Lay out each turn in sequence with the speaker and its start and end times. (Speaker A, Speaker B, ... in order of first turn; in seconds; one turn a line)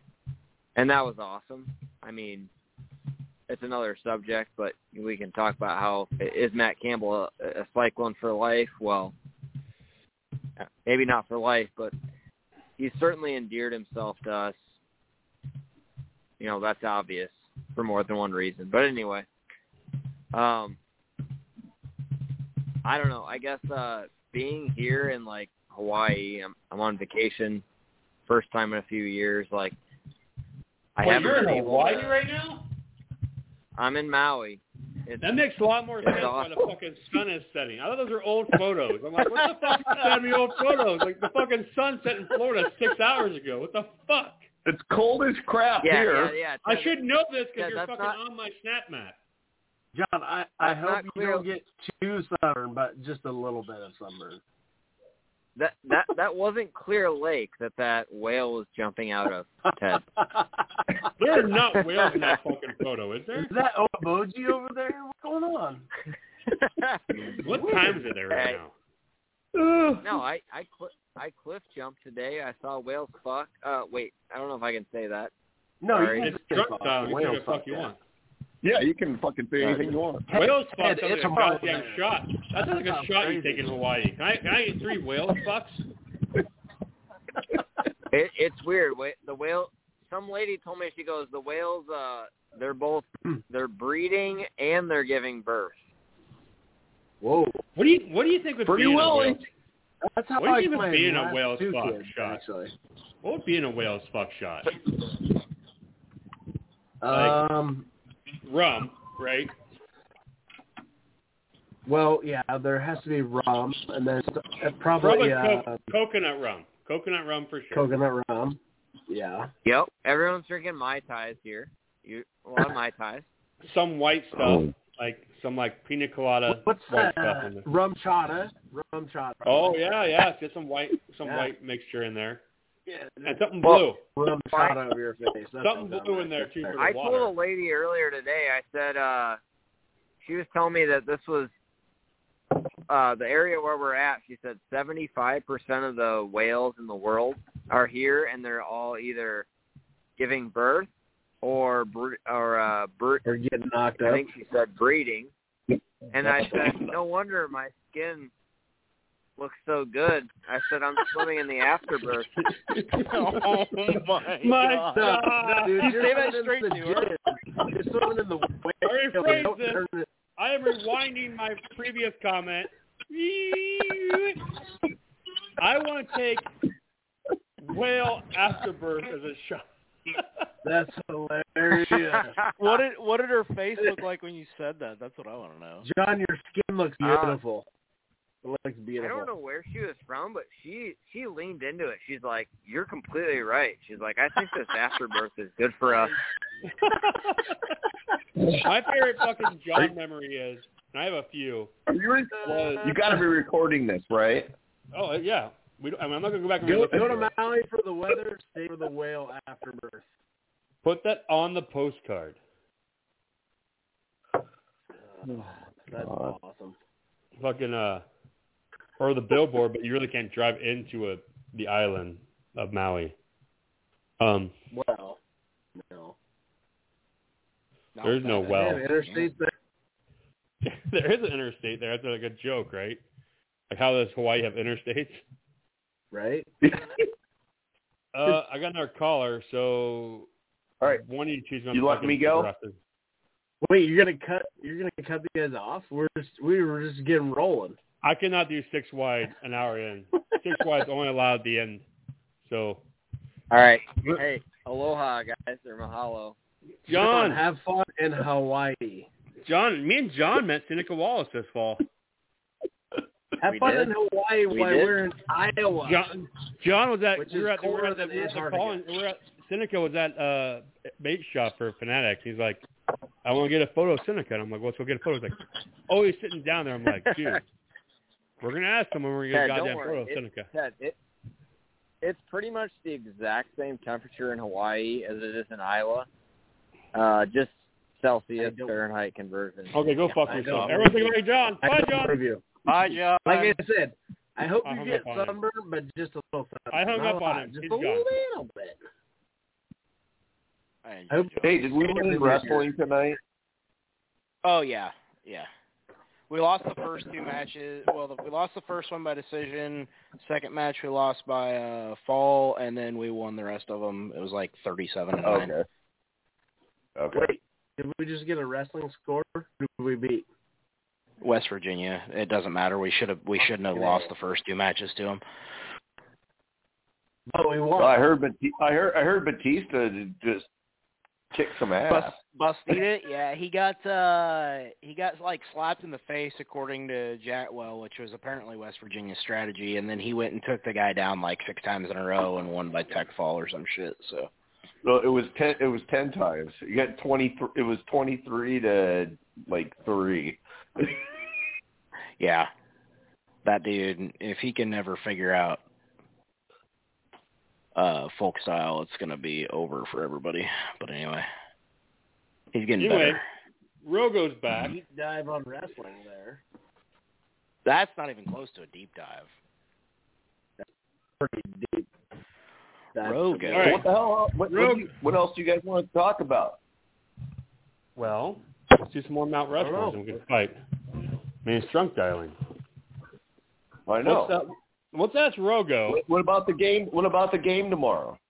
Speaker A: 0.8-2.5
Speaker A: 3.5-9.1
Speaker A: 10.6-11.9
Speaker A: 12.8-14.6
Speaker A: 16.4-19.3
Speaker A: 20.3-20.8
Speaker A: 22.9-27.6
Speaker A: 28.3-29.8
Speaker A: 31.0-32.2
Speaker B: 31.0-32.6
Speaker A: 33.8-35.4
Speaker B: 35.2-44.4
Speaker A: 36.0-36.6
Speaker C: 44.7-46.4
Speaker A: 45.8-47.0
Speaker B: 46.6-49.1
Speaker A: 47.6-48.2
Speaker D: 49.9-54.4
Speaker A: 50.6-51.5
Speaker A: 55.6-60.0
Speaker D: 60.2-60.5
Speaker B: 61.2-63.5
Speaker D: 63.4-65.9
Speaker B: 67.4-68.7
Speaker A: 68.3-68.6
Speaker C: 69.5-70.2
Speaker A: 70.0-75.3
Speaker D: 75.8-77.9
Speaker A: 75.9-76.3
Speaker B: 76.2-78.0
Speaker C: 78.6-80.3
Speaker A: 79.6-79.9
Speaker D: 80.3-83.7
Speaker B: 80.3-85.8
Speaker A: 88.1-95.8
Speaker D: 97.2-97.6
Speaker B: 97.8-99.5
Speaker C: 98.7-99.5
Speaker D: 100.0-102.7
Speaker B: 100.4-102.4
Speaker B: 103.2-104.7
Speaker D: 107.0-107.9
Speaker B: 107.1-107.5
Speaker B: 108.5-109.5
Speaker D: 111.9-115.8
Speaker B: 115.0-117.9
Speaker D: 117.7-119.5
Speaker A: 119.7-123.3
Speaker B: 123.7-127.7
Speaker C: 124.3-124.7
Speaker D: 126.5-129.8
Speaker B: 129.4-132.4
Speaker D: 131.2-131.5
Speaker D: 132.9-133.4
Speaker B: 133.2-134.0
Speaker D: 134.2-136.8
Speaker A: 134.5-134.8
Speaker B: 135.6-137.3
Speaker A: 136.8-139.4
Speaker A: 140.2-141.5
Speaker A: 142.9-149.5
Speaker A: 150.2-150.9
Speaker A: 151.4-153.2
Speaker D: 153.2-154.3
Speaker A: 154.0-155.3
Speaker A: 156.1-158.3
Speaker C: 156.4-156.8
Speaker A: 159.4-162.3
Speaker B: 162.4-163.6
Speaker E: 163.0-165.0
Speaker B: 164.4-166.3
Speaker D: 164.9-170.1
Speaker E: 165.8-167.1
Speaker B: 168.8-169.8
Speaker B: 170.4-174.5
Speaker B: 175.6-176.5
Speaker B: 177.6-179.6
Speaker D: 180.6-182.4
Speaker A: 182.1-182.6
Speaker E: 182.6-185.9
Speaker D: 185.8-187.7
Speaker A: 187.0-187.4
Speaker D: 188.4-189.3
Speaker A: 189.0-196.1
Speaker B: 196.7-197.6
Speaker B: 198.6-201.7
Speaker C: 201.9-204.5
Speaker B: 202.4-202.9
Speaker D: 202.4-202.9
Speaker B: 204.9-207.3
Speaker D: 206.7-210.1
Speaker C: 206.8-207.1
Speaker B: 210.8-212.4
Speaker D: 215.1-216.8
Speaker C: 215.3-216.3
Speaker B: 217.4-218.0
Speaker B: 219.0-223.2
Speaker B: 224.2-224.5
Speaker D: 224.7-225.2
Speaker D: 225.8-226.2
Speaker E: 227.9-229.3
Speaker B: 228.0-228.8
Speaker D: 228.5-229.5
Speaker B: 230.6-233.0
Speaker B: 233.7-235.2
Speaker D: 236.1-236.5
Speaker B: 238.1-240.3
Speaker B: 240.9-242.8
Speaker C: 241.7-242.5
Speaker D: 243.6-247.8
Speaker B: 248.0-251.8
Speaker B: 252.4-252.8
Speaker A: 253.5-256.4
Speaker B: 256.9-257.4
Speaker D: 256.9-259.1
Speaker B: 259.5-261.8
Speaker D: 263.4-266.1
Speaker A: 263.5-263.9
Speaker A: 264.5-265.0
Speaker B: 265.9-272.6
Speaker D: 267.2-268.8
Speaker B: 273.2-277.4
Speaker B: 278.4-280.5
Speaker A: 279.3-281.0
Speaker A: 282.0-286.1
Speaker A: 286.9-290.9
Speaker D: 288.4-288.8
Speaker B: 289.7-292.2
Speaker D: 290.3-298.8
Speaker B: 292.7-293.1
Speaker B: 294.6-295.4
Speaker B: 296.7-298.1
Speaker E: 300.9-301.6
Speaker D: 301.1-302.7
Speaker C: 301.4-303.2
Speaker E: 304.4-305.5
Speaker E: 306.3-315.5
Speaker C: 315.2-315.7
Speaker C: 317.0-317.3
Speaker D: 317.1-320.3
Speaker E: 321.2-325.2
Speaker D: 323.7-324.1
Speaker D: 327.3-328.0
Speaker C: 327.8-330.5
Speaker C: 331.3-332.2
Speaker E: 331.9-344.3
Speaker C: 344.8-351.0
Speaker E: 352.2-352.5
Speaker E: 353.4-355.6
Speaker E: 357.8-361.2
Speaker E: 362.5-363.2
Speaker B: 362.8-363.2
Speaker B: 363.8-364.8
Speaker D: 364.6-366.4
Speaker E: 367.6-369.3
Speaker D: 371.2-371.9
Speaker D: 372.9-373.7
Speaker E: 373.0-373.8
Speaker B: 373.5-373.8
Speaker C: 373.6-376.6
Speaker B: 374.5-374.9
Speaker B: 378.0-380.6
Speaker D: 379.6-380.0
Speaker B: 381.4-382.4
Speaker C: 383.9-384.4
Speaker B: 384.0-386.0
Speaker C: 385.9-388.2